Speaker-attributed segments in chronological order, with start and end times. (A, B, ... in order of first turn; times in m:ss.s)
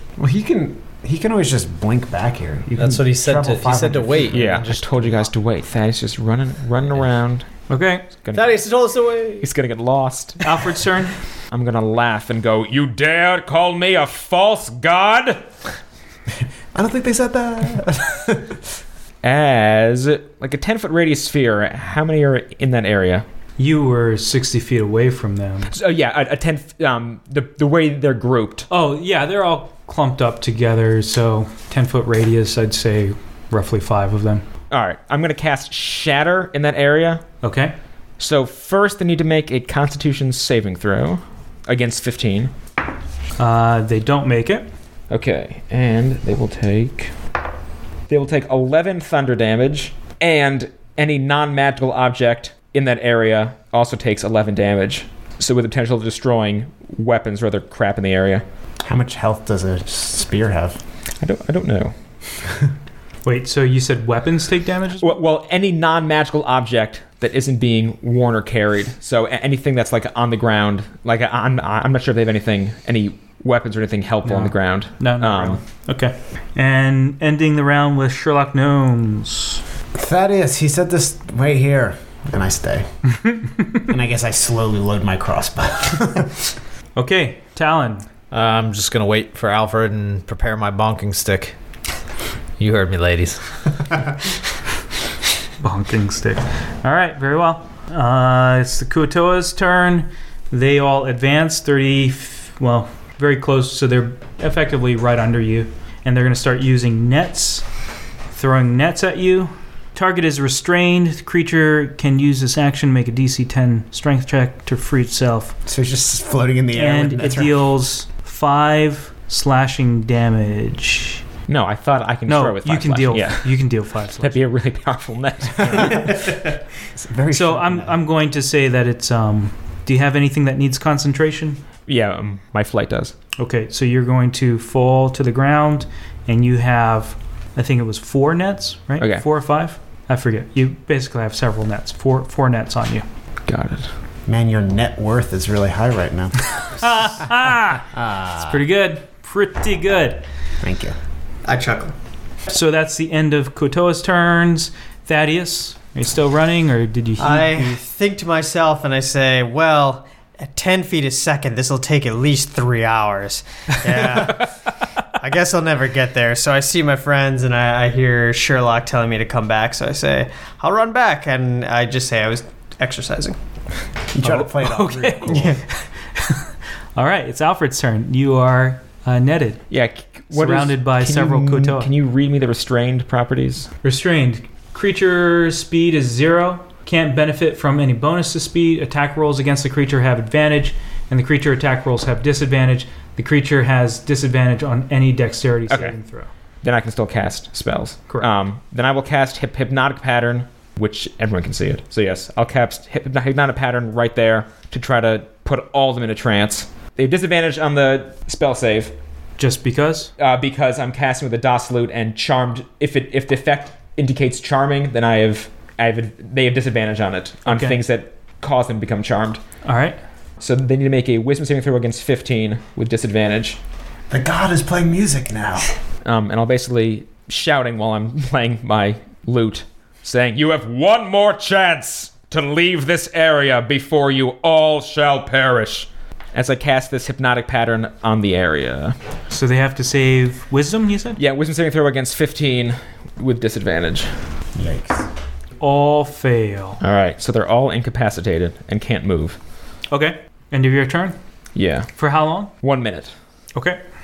0:00.2-0:04.5 A
0:02.8-0:05.3 B
0:04.3-0:07.6 C
0:07.7-0:08.1 D
0:08.2-0:08.7 C
0:08.3-0:09.5 B
0:09.4-0:10.4 C
0:10.4-0:11.1 D
0:11.5-0:15.4 C
0:16.7-0:18.6 A
0:19.2-0:23.2 C
0:23.6-0:25.7 D
0:25.7-0:28.7 C
0:28.7-0:34.4 D
0:34.7-0:37.2 C
0:37.4-0:37.7 D
0:38.2-0:42.5 C
0:43.4-0:44.6 D
0:45.1-0:47.1 C
0:48.1-0:58.4 C
0:58.8-1:00.8 A
1:01.2-1:01.9 C
1:03.2-1:05.2 D
1:05.0-1:15.6 C
1:14.2-1:19.6 D
1:19.9-1:22.9 A
1:23.8-1:26.4 A
1:27.0-1:28.1 D
1:28.3-1:31.6 B
1:32.6-1:33.4 B
1:35.6-1:47.6 D
1:48.3-1:55.6 D
1:55.6-1:57.6 A
1:56.7-2:01.2 D
2:01.5-2:03.6 C
2:02.3-2:04.4 D
2:04.2-2:06.3 C
2:05.6-2:06.1 A
2:06.9-2:08.0 A
2:07.3-2:11.6 D
2:11.9-2:13.1 C
2:13.4-2:23.0 D
2:19.0-2:19.2 C
2:23.4-2:23.9 C
2:24.3-2:27.2 A
2:26.5-2:30.2 D
2:27.9-2:28.6 A
2:30.6-2:31.0 A
2:31.4-2:31.9 E
2:32.5-2:37.8 D
2:37.2-2:53.4 E
2:54.1-2:55.6 A
2:54.2-2:59.6 D
2:55.3-2:55.6 E
2:59.7-3:03.7 C
3:00.3-3:01.9 D
3:03.8-3:16.3 D
3:16.6-3:28.9 C
3:29.4-3:30.1 D
3:30.2-3:39.4 C
3:37.4-3:37.8 D
3:39.6-3:40.0 D
3:40.4-3:43.6 C
3:44.1-3:45.7 A
3:46.0-3:59.0 C
3:59.3-4:01.2 D
4:01.2-4:04.2 C
4:04.6-4:05.1 A
4:05.6-4:06.8 D
4:06.8-4:09.4 C
4:09.9-4:11.2 D
4:11.5-4:11.9 C
4:12.0-4:12.5 D
4:12.6-4:13.1 C
4:13.5-4:13.8 D